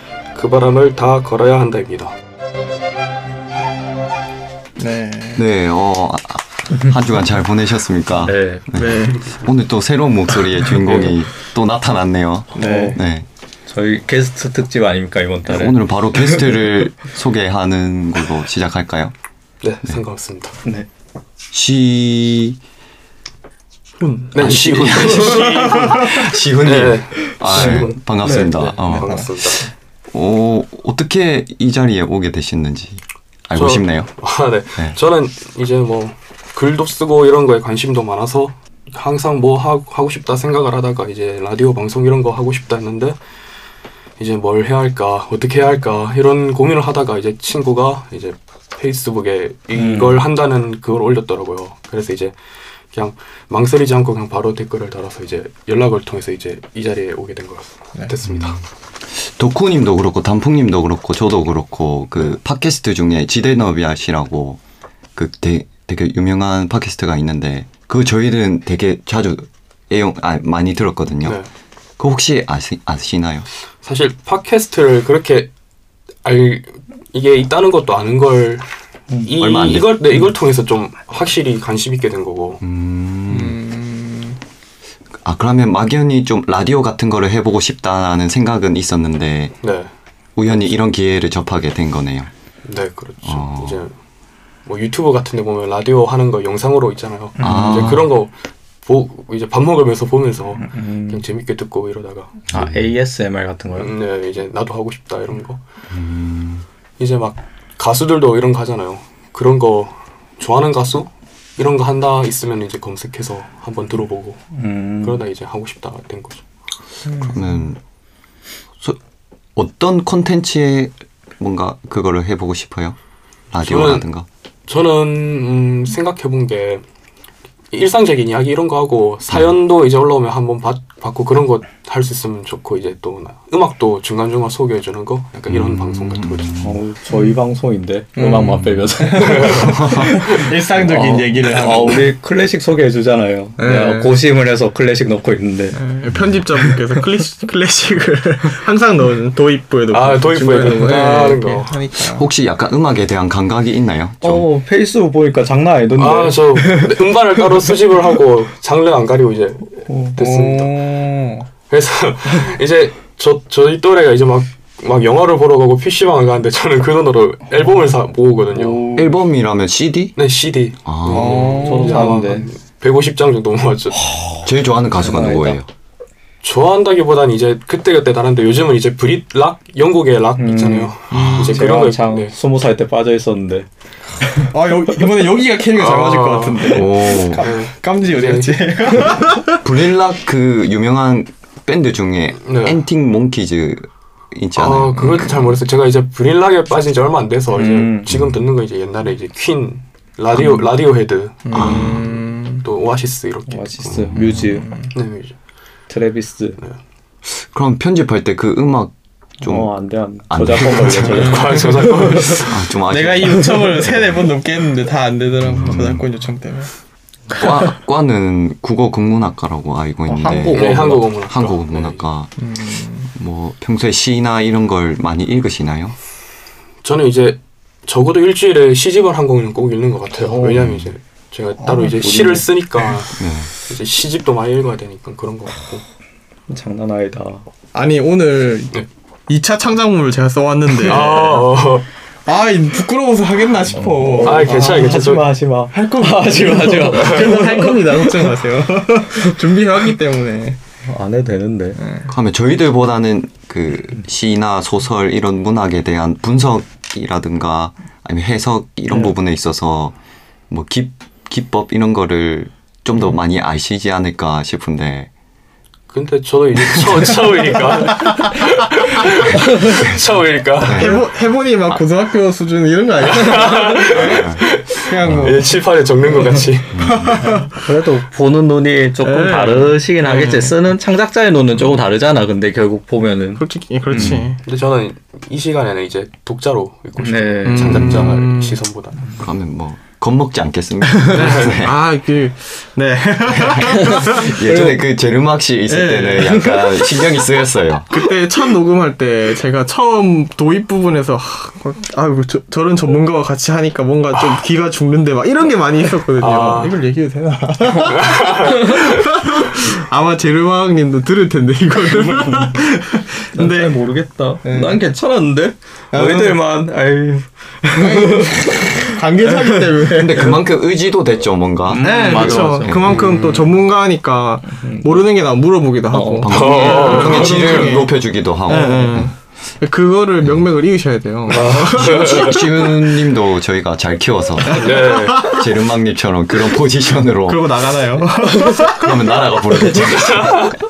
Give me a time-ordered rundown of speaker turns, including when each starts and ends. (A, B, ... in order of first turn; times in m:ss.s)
0:00.3-0:02.1 A
0:04.8-0:05.4 B
0:05.4-0:13.3 C
0:08.2-0:08.7 D
0:08.7-0:09.3 B
0:10.8-0:11.1 D
0:12.6-0:13.0 D
0:12.6-0:13.0 B
0:13.7-0:16.5 D
0:15.5-0:19.1 C
0:19.6-0:20.6 A
0:21.5-0:22.6 C
0:24.0-0:26.2 B
0:24.3-0:29.6 A
0:24.4-0:29.4 C
0:27.3-0:28.6 D
0:28.2-0:29.4 B
0:30.1-0:34.1 C
0:33.6-0:43.2 A
0:44.2-0:52.4 A
0:49.8-0:50.2 D
0:52.9-0:58.6 A
0:58.2-0:58.6 C
0:59.1-1:04.6 C
1:05.2-1:11.4 C
1:12.0-1:13.5 C
1:13.8-1:15.5 A
1:16.2-1:18.7 A
1:19.2-1:22.6 A
1:19.4-1:20.2 C
1:22.6-1:23.6 C
1:23.3-1:24.4 B
1:25.2-1:29.5 C
1:29.6-1:29.9 A
1:30.4-1:32.3 C
1:32.6-1:33.9 A
1:33.2-1:33.8 C
1:34.7-1:38.3 A
1:37.4-1:38.0 D
1:37.4-1:38.1 C
1:38.8-1:42.4 A
1:40.6-1:41.2 D
1:42.5-1:43.9 D
1:42.5-1:42.9 C
1:43.8-1:45.6 A
1:45.9-1:46.6 C
1:47.0-1:54.4 A
1:54.5-1:55.2 D
1:55.0-1:56.4 A
1:57.1-1:57.4 B
1:57.3-1:57.8 C
1:59.6-2:03.0 C
2:03.5-2:04.3 C
2:03.6-2:04.1 A
2:04.7-2:06.8 A
2:07.7-2:16.5 A
2:15.5-2:16.8 C
2:16.6-2:25.8 D
2:17.1-2:17.4 B
2:18.2-2:22.1 B
2:18.6-2:18.9 C
2:19.2-2:19.8 A
2:19.6-2:20.3 C
2:23.6-2:24.2 B
2:25.8-2:32.3 B
2:29.9-2:31.8 A
2:32.0-2:34.5 C
2:34.2-2:37.8 D
2:36.0-2:40.8 A
2:40.1-2:41.5 B
2:41.7-2:49.0 A
2:48.5-2:49.1 B
2:49.0-2:50.2 C
2:50.2-2:54.0 A
2:50.8-2:51.6 C
2:51.1-2:52.3 B
2:51.6-2:52.5 D
2:54.0-2:55.6 D
2:54.4-2:55.7 C
2:56.4-3:02.4 A
3:00.4-3:03.7 D
3:01.1-3:01.7 B
3:04.2-3:04.5 D
3:04.5-3:09.6 B
3:05.7-3:08.6 A
3:06.7-3:07.5 C
3:09.6-3:15.5 C
3:12.4-3:12.8 A
3:14.6-3:22.0 A
3:17.5-3:18.1 D
3:18.1-3:18.4 C
3:21.5-3:22.7 B
3:21.5-3:22.1 C
3:22.6-3:24.1 A
3:23.5-3:24.7 D
3:24.1-3:24.5 C
3:24.4-3:24.9 B
3:24.9-3:25.4 A
3:25.9-3:26.6 D
3:27.3-3:29.7 C
3:29.4-3:32.4 D
3:30.3-3:34.3 C
3:30.6-3:32.7 A
3:32.3-3:36.7 B
3:35.5-3:36.0 C
3:35.6-3:36.0 D
3:37.4-3:42.3 C
3:40.1-3:41.1 D
3:40.5-3:42.0 A
3:42.4-3:43.1 B
3:43.1-3:46.0 C
3:46.8-3:55.8 A
3:50.3-3:50.7 B
3:50.6-3:50.9 C
3:51.6-3:52.1 B
3:52.0-3:52.5 D
3:53.2-3:53.5 C
3:56.5-3:57.4 D
3:57.7-3:58.8 B
3:59.3-4:01.6 B
4:00.8-4:01.9 A
4:02.3-4:05.2 B
4:03.7-4:08.3 D
4:04.2-4:05.3 A
4:05.7-4:10.6 B
4:10.9-4:11.8 D
4:11.8-4:12.1 B
4:12.1-4:20.0 C
4:20.5-4:25.1 C
4:25.9-4:31.0 A
4:26.7-4:27.2 C
4:27.7-4:28.2 B
4:29.3-4:30.0 C
4:29.4-4:29.8 D
4:30.6-4:31.0 C
4:30.7-4:37.6 B
4:33.0-4:36.8 A
4:33.9-4:34.5 C
4:35.0-4:35.4 C
4:36.7-4:37.3 C
4:37.2-4:44.3 D
4:39.0-4:40.5 B
4:43.4-4:44.4 B
4:44.0-4:44.3 C
4:44.4-4:49.1 A
4:47.0-4:48.0 D
4:47.4-4:48.6 B
4:47.6-4:48.2 C
4:49.2-4:51.8 C
4:51.0-4:54.4 B
4:51.1-4:51.6 A
4:53.6-4:57.9 C
4:53.6-4:54.8 D
4:55.7-4:56.8 B
4:57.9-5:13.9 B
5:06.2-5:06.8 A
5:07.9-5:08.8 A
5:13.4-5:19.6 D
5:14.4-5:14.8 B
5:15.9-5:16.4 B
5:17.8-5:20.4 B
5:19.9-5:23.1 C
5:21.7-5:23.5 D
5:21.8-5:27.9 B
5:24.5-5:25.0 D
5:25.9-5:26.3 D
5:26.2-5:29.1 C
5:26.3-5:27.7 A
5:28.5-5:32.7 B
5:31.3-5:32.5 A
5:31.7-5:38.0 C
5:34.5-5:35.5 B
5:34.5-5:35.4 A
5:37.2-5:39.8 B
5:38.6-5:40.6 C
5:40.0-5:40.5 A